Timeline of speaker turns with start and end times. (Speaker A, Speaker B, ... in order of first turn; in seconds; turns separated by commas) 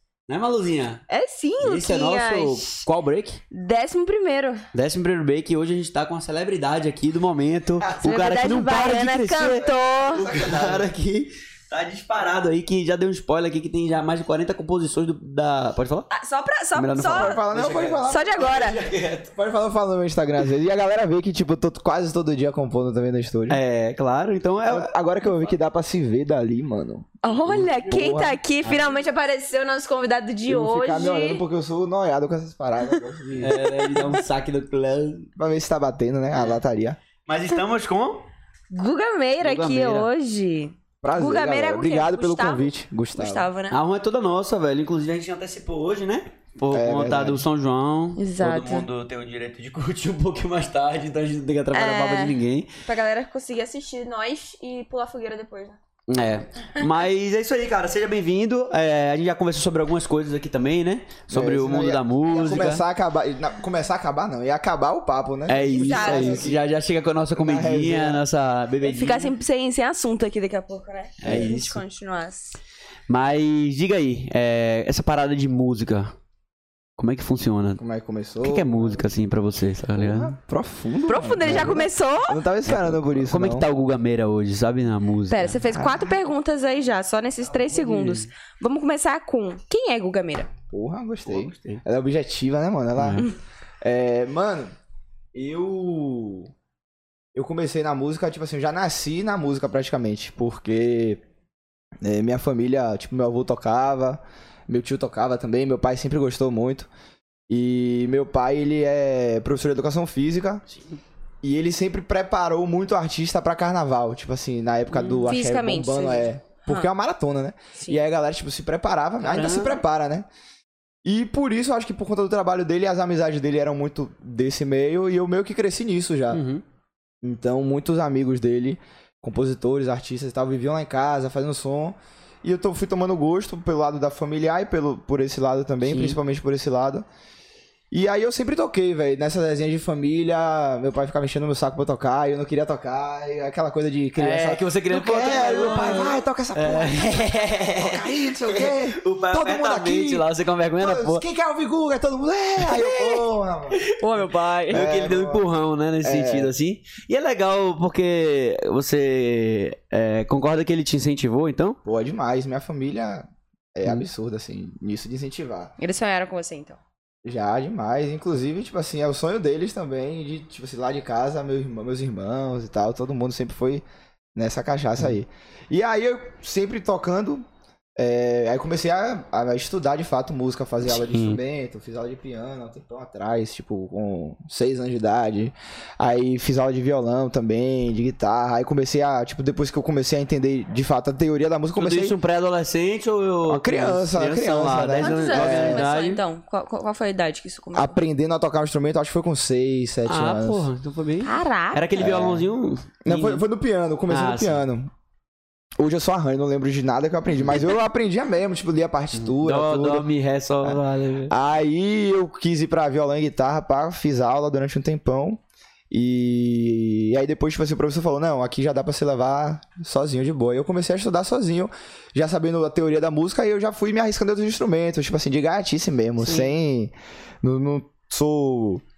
Speaker A: 0.3-1.0, Speaker B: 1.1-2.8, Speaker A: 1.6-3.4, Speaker B: 3.5-4.6, Speaker A: 4.7-16.1, Speaker C: 7.8-8.1, Speaker B: 8.0-10.3, Speaker C: 10.2-10.9, Speaker B: 16.1-17.4, Speaker A: 16.7-19.3, Speaker C: 17.1-18.4, Speaker B: 18.1-18.8, Speaker C: 19.3-23.6, Speaker A: 23.5-24.9, Speaker C: 24.7-28.4, Speaker B: 27.2-31.4, Speaker A: 28.6-29.0, Speaker C: 30.5-33.6, Speaker B: 32.8-34.2, Speaker A: 33.4-35.3, Speaker C: 35.4-37.0, Speaker A: 37.2-38.3, Speaker B: 38.7-43.8, Speaker A: 39.4-40.1, Speaker C: 41.0-43.5, Speaker A: 43.7-52.7, Speaker C: 46.7-47.5, Speaker B: 48.2-48.9, Speaker B: 51.7-55.8, Speaker A: 56.1-62.8, Speaker C: 61.3-66.6, Speaker A: 65.5-69.3, Speaker B: 65.8-66.5, Speaker C: 67.3-68.2, Speaker B: 68.8-72.6, Speaker A: 71.2-71.8, Speaker C: 71.2-71.5, Speaker A: 73.1-76.1, Speaker A: 77.0-77.8, Speaker C: 77.8-79.0, Speaker A: 78.4-80.3, Speaker C: 80.0-83.7, Speaker B: 81.1-82.4, Speaker A: 81.4-81.8, Speaker A: 82.6-85.6, Speaker B: 85.3-90.5, Speaker C: 85.7-86.1, Speaker A: 87.6-88.3, Speaker C: 90.7-93.3, Speaker A: 91.2-91.8, Speaker A: 93.0-93.3, Speaker C: 93.8-94.7, Speaker C: 95.3-96.5, Speaker C: 97.3-101.2, Speaker C: 102.0-106.9, Speaker C: 107.5-110.6, Speaker C: 111.4-120.2, Speaker A: 114.9-115.3, Speaker B: 115.2-116.9, Speaker A: 119.2-119.8, Speaker C: 121.0-126.4, Speaker A: 126.3-126.6, Speaker C: 127.2-137.0, Speaker A: 135.8-136.2, Speaker C: 137.9-150.2, Speaker A: 144.2-151.2, Speaker C: 150.8-153.8, Speaker A: 152.6-161.8, Speaker B: 154.0-154.5, Speaker C: 154.7-155.4, Speaker C: 156.0-156.5, Speaker C: 161.8-165.7, Speaker B: 165.8-166.8, Speaker C: 167.2-173.8, Speaker C: 174.3-177.4, Speaker C: 178.0-192.1, Speaker A: 180.8-181.4, Speaker A: 191.7-196.2, Speaker C: 193.4-195.9, Speaker B: 195.0-198.0, Speaker C: 197.7-200.7, Speaker A: 200.1-203.4, Speaker B: 201.2-201.9, Speaker C: 202.0-202.5, Speaker C: 203.0-204.9, Speaker A: 204.1-204.6, Speaker C: 205.8-210.1, Speaker A: 209.1-211.3, Speaker C: 210.6-215.4, Speaker C: 215.9-228.8